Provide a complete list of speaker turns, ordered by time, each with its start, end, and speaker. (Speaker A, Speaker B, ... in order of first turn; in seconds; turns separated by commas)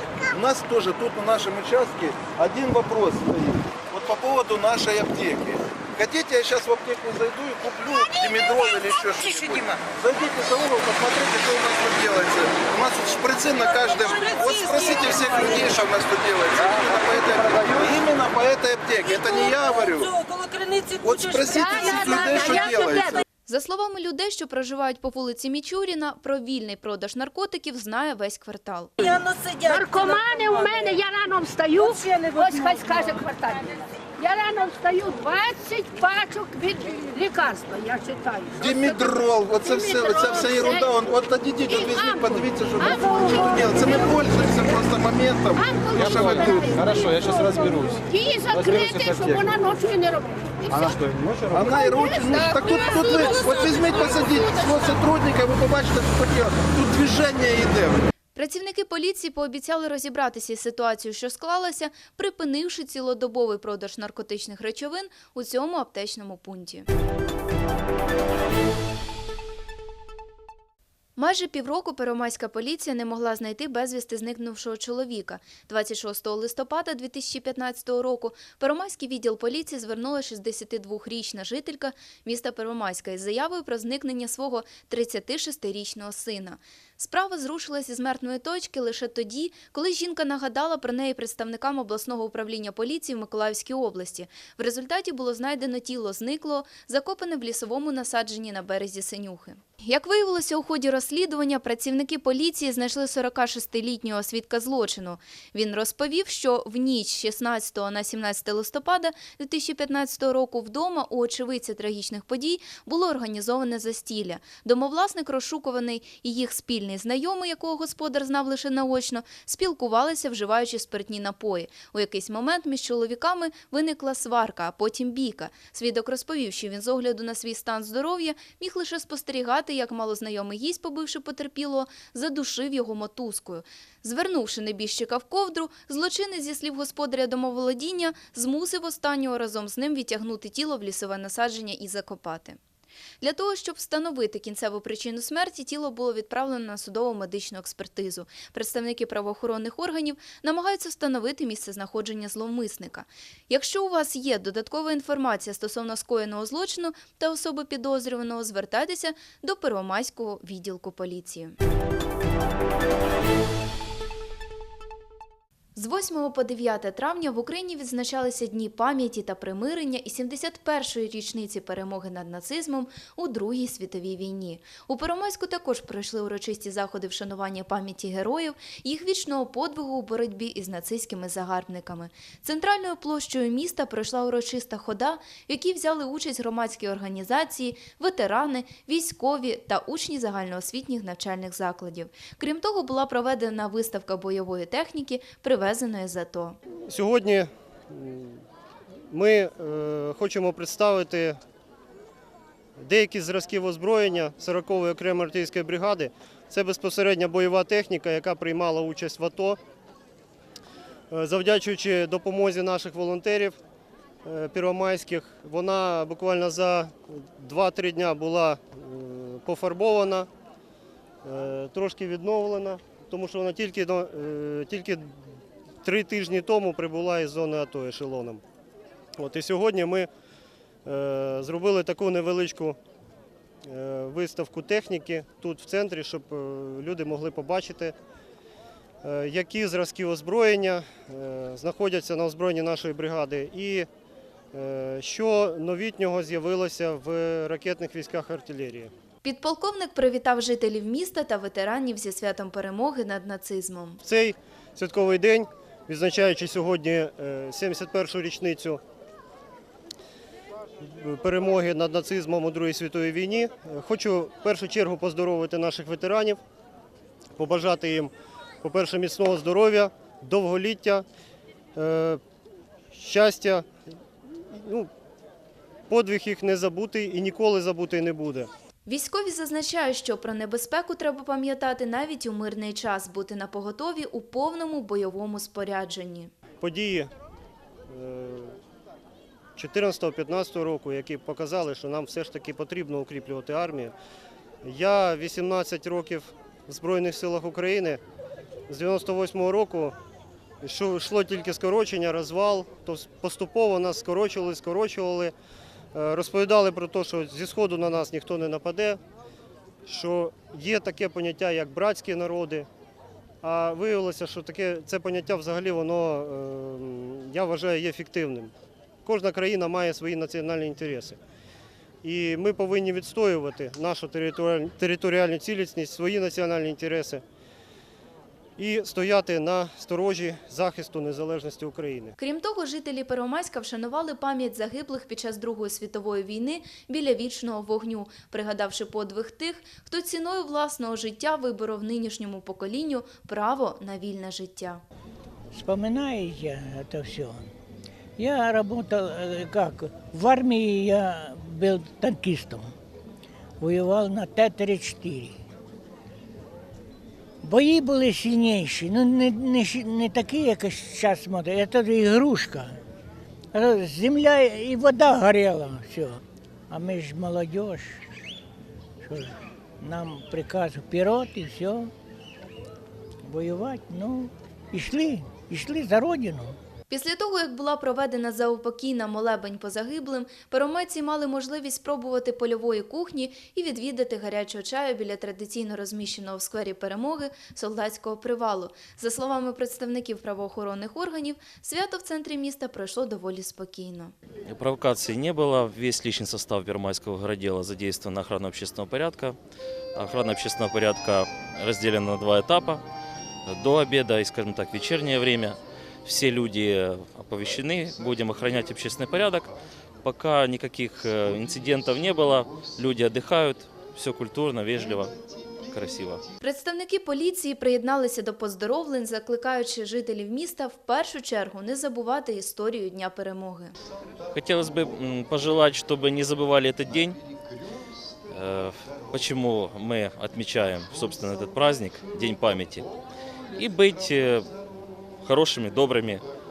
Speaker A: 0.3-20.2, Speaker A: 20.8-23.2, Speaker B: 23.5-28.9, Speaker C: 29.7-38.5, Speaker A: 38.6-49.5, Speaker C: 47.1-51.0, Speaker A: 51.3-58.0, Speaker B: 58.3-66.9, Speaker B: 71.2-142.6, Speaker B: 143.2-161.6, Speaker B: 165.7-196.6, Speaker D: 196.9-198.4, Speaker D: 199.1-201.4, Speaker D: 202.8-209.6, Speaker D: 211.1-213.6, Speaker D: 214.2-220.3, Speaker D: 221.2-225.1, Speaker D: 225.8-228.4, Speaker D: 229.2-230.1, Speaker D: 230.8-232.8, Speaker D: 233.7-237.9, Speaker D: 239.0-243.9, Speaker D: 244.5-248.9, Speaker B: 249.2-254.0, Speaker D: 254.0-258.8, Speaker D: 260.8-266.4, Speaker D: 267.4-271.0, Speaker D: 271.8-272.2, Speaker D: 272.9-273.7, Speaker D: 274.5-274.9, Speaker D: 275.9-278.5, Speaker B: 278.9-286.3, Speaker D: 286.6-287.1, Speaker D: 287.9-288.6, Speaker D: 289.6-293.9, Speaker D: 294.6-298.0, Speaker D: 298.7-299.9, Speaker D: 300.6-305.3, Speaker D: 305.9-309.0, Speaker D: 309.9-312.7, Speaker D: 313.4-318.5, Speaker D: 319.1-321.2, Speaker D: 322.0-327.2, Speaker D: 328.6-332.1, Speaker B: 332.2-344.8, Speaker E: 345.5-347.5, Speaker E: 348.2-352.7, Speaker E: 353.6-355.4, Speaker E: 357.4-362.8, Speaker E: 363.5-368.0, Speaker E: 369.0-371.9, Speaker E: 373.2-376.6, Speaker B: 376.9-394.1, Speaker F: 394.5-399.4, Speaker F: 399.9-402.8, Speaker F: 403.5-415.2, Speaker F: 415.7-416.2, Speaker B: 416.4-423.7, Speaker F: 424.3-427.2, Speaker F: 428.3-432.9, Speaker F: 433.5-434.5, Speaker F: 435.2-436.2